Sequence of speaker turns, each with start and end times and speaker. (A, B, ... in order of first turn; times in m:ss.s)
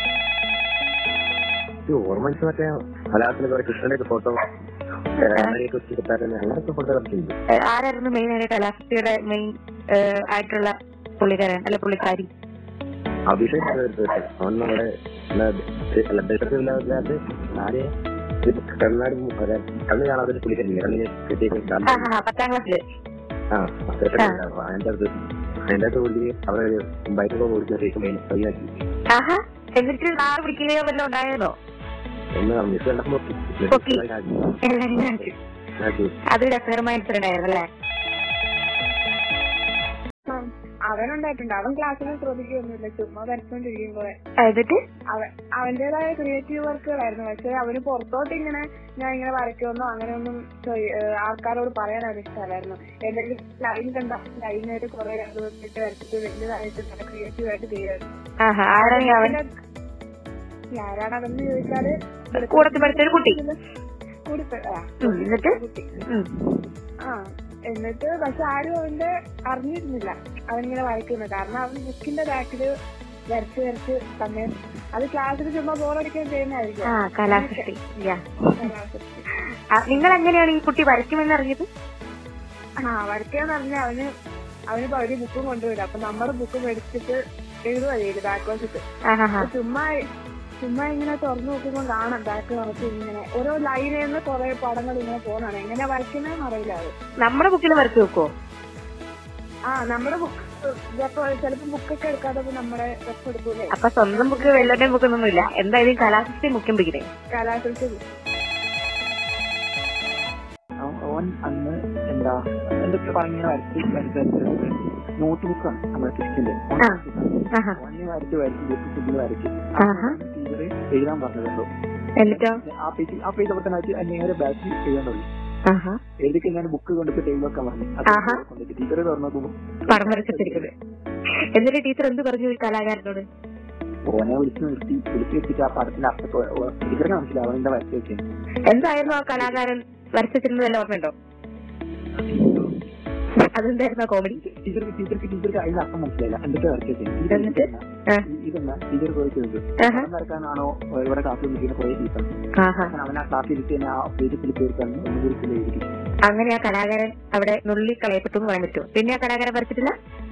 0:01.9-0:04.4 A
0:05.2-0:07.4 A
0:05.2-0:05.6 B
0:07.6-0:12.3 B
0:13.3-0:17.9 A
0:18.4-0:22.1 A
0:21.9-0:22.8 B
0:23.5-0:25.1 A
0:25.7-0:28.7 A
0:29.1-0:31.6 B
0:32.4-0:34.5 A
0:33.7-0:34.0 B
0:34.6-0:35.3 B
0:35.1-0:36.2 A
0:36.3-0:37.7 B
0:40.3-0:44.1 C
0:44.4-0:44.8 B
0:45.1-0:58.1 C
0:58.4-0:59.4 B
0:58.8-0:59.5 C
1:00.7-1:03.5 C
1:02.4-1:03.4 B
1:04.3-1:06.0 C
1:05.0-1:06.3 B
1:07.7-1:12.7 C
1:13.3-1:17.7 C
1:16.8-1:18.7 B
1:18.6-1:19.2 C
1:19.8-1:21.7 B
1:22.8-1:24.1 C
1:24.7-1:27.2 C
1:27.7-1:28.8 C
1:29.1-1:29.5 B
1:29.4-1:29.9 C
1:30.6-1:36.9 C
1:37.2-1:38.3 B
1:39.7-1:45.0 C
1:43.7-1:47.1 B
1:47.3-1:48.0 C
1:50.8-2:01.7 D
1:57.5-1:57.8 B
1:59.8-2:00.2 B
2:02.2-2:02.6 B
2:02.3-2:05.3 D
2:05.7-2:06.0 B
2:06.2-2:10.7 D
2:08.1-2:08.4 B
2:09.9-2:10.7 B
2:11.5-2:13.3 B
2:14.1-2:18.2 D
2:18.7-2:21.1 B
2:19.3-2:19.6 D
2:22.2-2:22.8 D
2:23.4-2:24.4 B
2:24.3-2:32.3 D
2:27.3-2:28.2 B
2:29.8-2:30.1 B
2:32.6-2:32.9 B
2:32.9-2:35.9 D
2:36.3-2:39.9 B